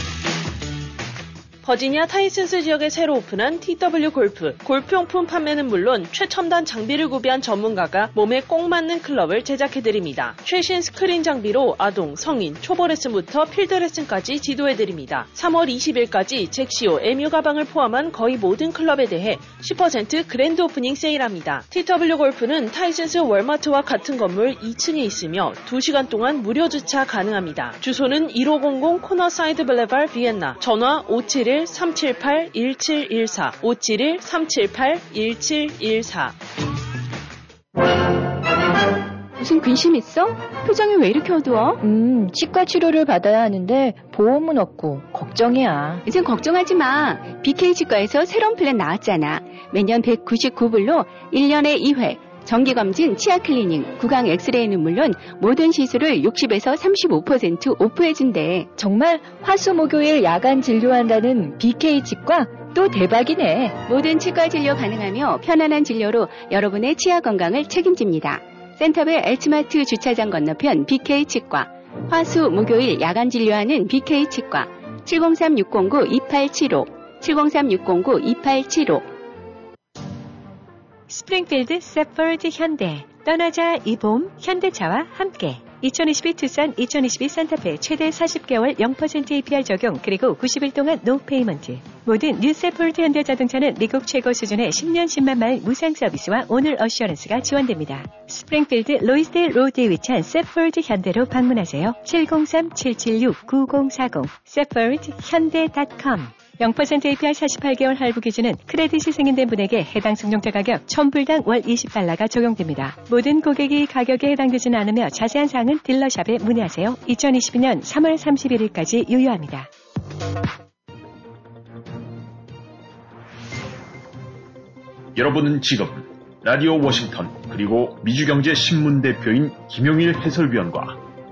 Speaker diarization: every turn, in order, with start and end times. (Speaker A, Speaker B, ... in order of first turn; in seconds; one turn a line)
Speaker A: 1.6-36.4
Speaker B: 39.4-41.8
Speaker C: 41.8-46.0
Speaker B: 46.1-58.7
Speaker C: 58.8-63.8
Speaker B: 63.9-79.1
Speaker D: 81.1-119.7
Speaker E: 125.2-131.0